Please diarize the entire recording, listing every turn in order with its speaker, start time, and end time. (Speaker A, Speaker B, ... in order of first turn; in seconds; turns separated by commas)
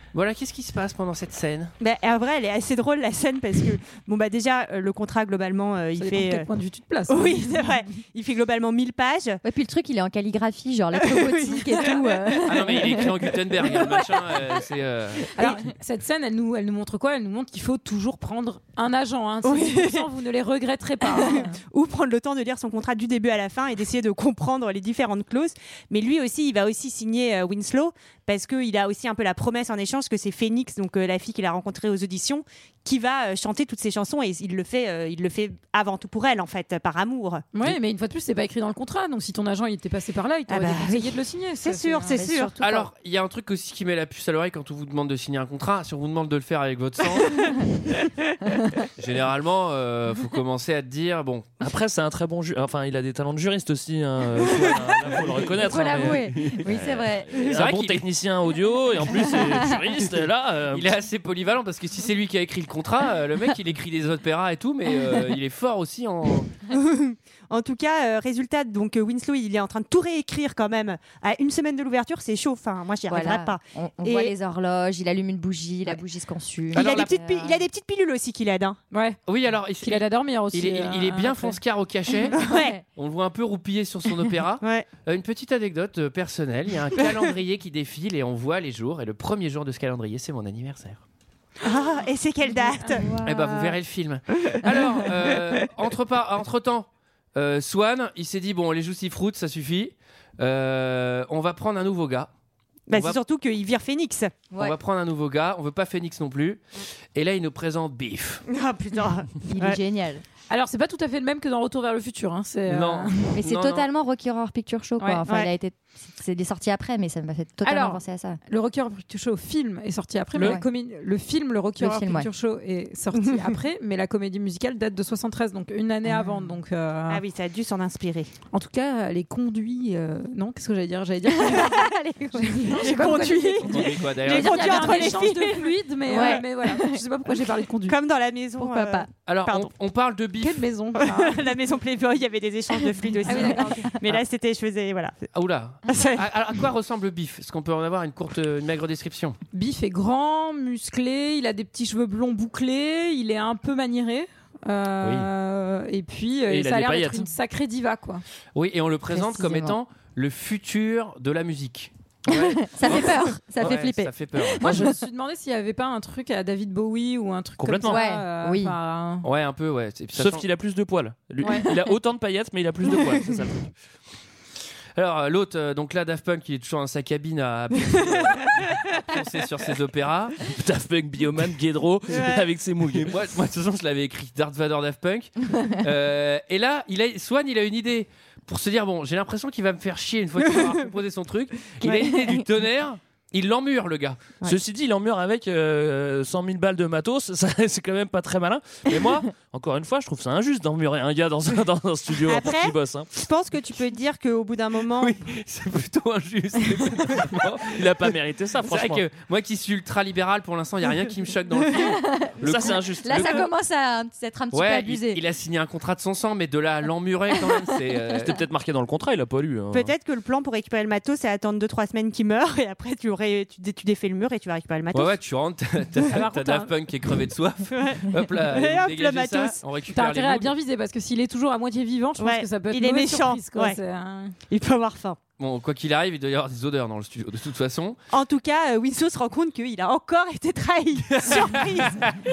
Speaker A: 0.1-1.7, Speaker B: 1.8-6.5, Speaker C: 6.0-7.6, Speaker B: 7.1-9.4, Speaker D: 9.4-14.3, Speaker B: 11.1-11.8, Speaker A: 12.5-15.3, Speaker C: 15.4-21.6, Speaker B: 19.4-20.1, Speaker B: 21.1-37.5, Speaker C: 37.5-42.2, Speaker B: 40.5-42.7, Speaker D: 42.1-42.9, Speaker A: 42.6-47.6, Speaker A: 49.0-51.5, Speaker E: 51.6-60.9, Speaker D: 55.6-57.5, Speaker A: 57.3-58.1, Speaker D: 59.3-59.7, Speaker A: 60.7-66.5, Speaker B: 66.7-74.3, Speaker D: 73.1-77.6, Speaker A: 76.7-77.1, Speaker B: 76.7-78.8, Speaker C: 78.9-79.2, Speaker A: 79.3-82.3, Speaker C: 79.8-81.6, Speaker B: 82.3-82.8, Speaker D: 82.3-82.8, Speaker A: 83.0-91.0, Speaker B: 84.6-84.9, Speaker B: 91.6-93.1, Speaker C: 92.8-93.2, Speaker A: 93.2-102.3, Speaker B: 102.9-104.3, Speaker A: 102.9-103.2, Speaker A: 104.6-106.6, Speaker A: 107.1-108.4, Speaker B: 108.5-109.8, Speaker D: 109.5-110.2, Speaker C: 110.5-113.3, Speaker A: 112.7-113.9, Speaker D: 113.3-118.4, Speaker C: 115.0-115.2, Speaker C: 117.6-127.2, Speaker D: 120.4-120.7, Speaker D: 121.8-122.3, Speaker B: 123.1-123.5, Speaker D: 126.1-126.5, Speaker B: 127.1-128.3, Speaker C: 128.5-138.0, Speaker D: 131.3-133.1, Speaker B: 132.7-136.4, Speaker A: 133.7-134.9, Speaker D: 136.1-137.3, Speaker B: 137.9-139.7, Speaker D: 138.6-139.1, Speaker A: 139.3-140.6, Speaker C: 140.4-141.6, Speaker B: 141.0-145.3, Speaker C: 143.2-143.9, Speaker D: 143.3-143.8, Speaker A: 145.3-149.4, Speaker B: 145.9-146.3, Speaker C: 149.5-158.2, Speaker E: 155.0-155.3, Speaker E: 156.5-157.3, Speaker A: 158.6-164.7, Speaker D: 159.1-159.8, Speaker D: 162.3-164.9, Speaker C: 164.6-169.3, Speaker E: 164.7-164.9, Speaker E: 167.6-168.0, Speaker D: 167.8-168.8, Speaker A: 169.2-170.5, Speaker E: 170.2-173.7, Speaker C: 171.4-171.8, Speaker A: 175.0-180.4, Speaker E: 180.4-183.2, Speaker B: 182.1-182.4, Speaker A: 183.0-194.3, Speaker E: 194.4-203.1, Speaker B: 202.3-205.2, Speaker A: 205.0-213.4, Speaker E: 207.6-209.1, Speaker D: 211.9-215.2, Speaker E: 212.4-213.4, Speaker A: 214.5-218.4, Speaker E: 218.2-219.9, Speaker B: 219.7-225.2, Speaker A: 224.9-230.6, Speaker C: 226.0-226.7, Speaker B: 227.7-229.6, Speaker C: 229.9-234.3, Speaker B: 232.2-233.8, Speaker B: 234.5-235.2, Speaker A: 235.4-238.0, Speaker B: 238.1-242.1, Speaker A: 241.2-242.2